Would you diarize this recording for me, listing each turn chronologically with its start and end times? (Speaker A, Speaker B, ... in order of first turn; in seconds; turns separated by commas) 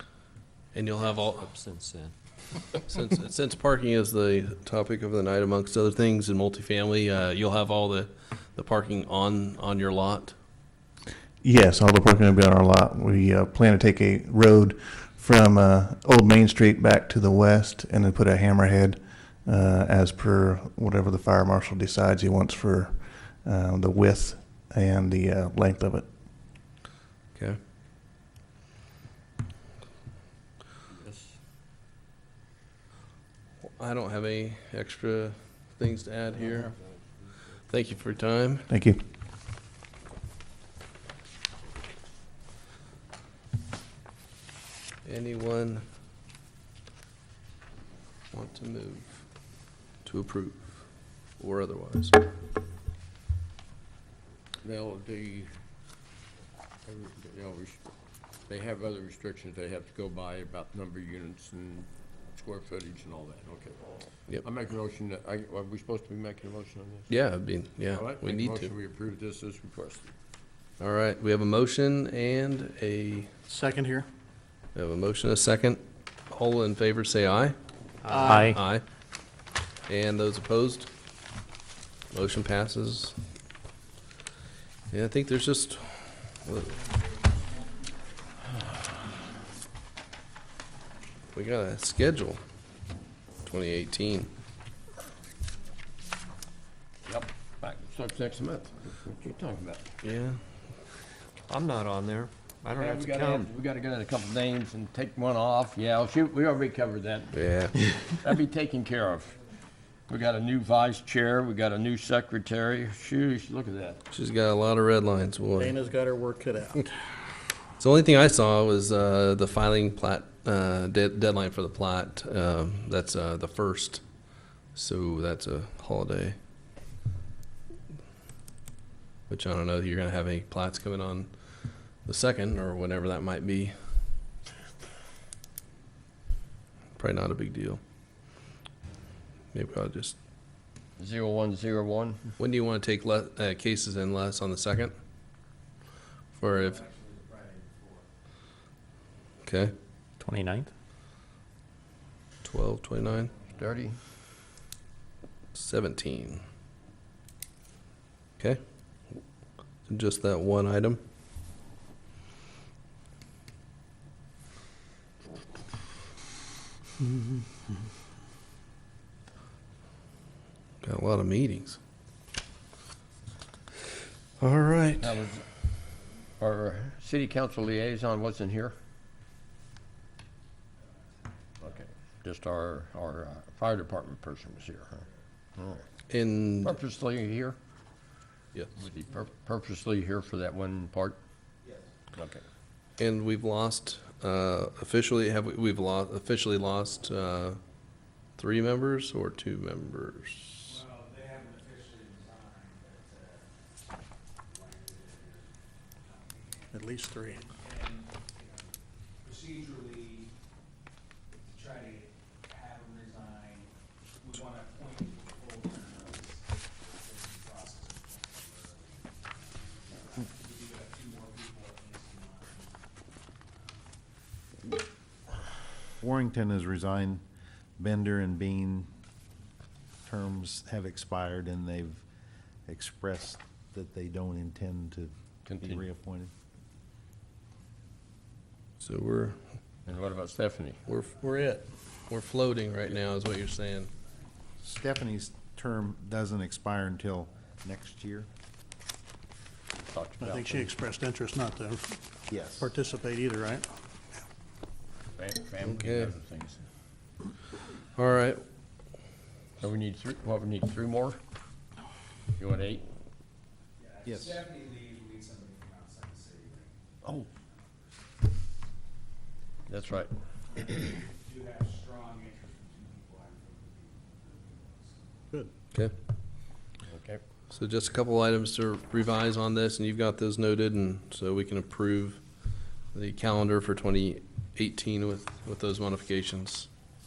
Speaker A: 0.7-1.5, Speaker B: 1.4-2.1, Speaker A: 2.9-10.3, Speaker C: 11.4-26.1, Speaker D: 30.9-31.4, Speaker A: 33.8-36.7, Speaker A: 37.7-38.7, Speaker C: 38.7-39.0, Speaker A: 45.0-45.8, Speaker A: 48.3-49.2, Speaker A: 50.0-50.8, Speaker A: 51.4-52.2, Speaker D: 54.6-55.5, Speaker D: 56.9-57.8, Speaker D: 58.5-63.8, Speaker D: 64.4-67.1, Speaker A: 67.1-68.7, Speaker D: 67.9-70.1, Speaker A: 70.8-73.3, Speaker E: 73.5-74.1, Speaker A: 74.8-77.5, Speaker B: 78.0-78.6, Speaker E: 78.1-78.5, Speaker A: 78.2-78.8, Speaker A: 79.9-80.9, Speaker A: 82.1-83.2, Speaker A: 84.9-86.8, Speaker A: 91.3-92.4, Speaker A: 93.5-94.3, Speaker D: 97.1-99.9, Speaker A: 100.0-100.4, Speaker B: 101.5-103.5, Speaker D: 102.7-107.4, Speaker A: 107.3-108.0, Speaker D: 108.1-109.4, Speaker D: 110.1-114.0, Speaker A: 114.1-115.8, Speaker E: 115.6-117.0, Speaker A: 117.8-124.0, Speaker A: 124.7-126.4, Speaker A: 129.3-131.3, Speaker A: 132.1-133.7, Speaker A: 137.0-137.8, Speaker A: 139.5-140.2, Speaker D: 141.0-142.3, Speaker A: 142.4-144.9, Speaker A: 146.4-146.9, Speaker F: 146.6-148.0, Speaker A: 149.4-149.7, Speaker E: 150.2-150.6, Speaker A: 152.4-153.4, Speaker D: 153.6-154.0, Speaker A: 155.6-156.4, Speaker A: 159.9-161.0, Speaker A: 170.8-171.8, Speaker A: 174.4-175.2, Speaker D: 175.0-175.4, Speaker D: 176.4-178.7, Speaker F: 181.5-181.7, Speaker D: 181.6-185.8, Speaker A: 186.1-186.8, Speaker D: 186.6-187.6, Speaker D: 188.8-191.2, Speaker D: 192.1-192.4, Speaker A: 193.0-197.6, Speaker A: 198.4-200.8, Speaker F: 200.7-203.5, Speaker F: 204.5-205.5, Speaker F: 206.0-210.3, Speaker E: 206.7-207.5, Speaker F: 211.5-222.8, Speaker G: 226.0-227.2, Speaker G: 227.8-228.9, Speaker G: 230.1-232.0, Speaker G: 232.7-236.3, Speaker D: 235.5-235.8, Speaker A: 238.8-239.4, Speaker D: 239.9-240.8, Speaker A: 240.9-241.5, Speaker A: 242.1-243.9, Speaker G: 244.6-248.3, Speaker D: 249.9-250.7, Speaker E: 250.2-252.0, Speaker G: 252.3-252.7, Speaker E: 252.6-253.7, Speaker D: 255.2-256.6, Speaker A: 255.7-256.1, Speaker A: 257.9-258.4, Speaker D: 259.6-261.2, Speaker D: 262.4-262.9, Speaker F: 263.8-268.1, Speaker G: 264.1-264.4, Speaker D: 269.7-270.1, Speaker F: 270.9-275.0, Speaker D: 276.9-277.2, Speaker A: 277.5-282.2, Speaker A: 282.9-286.7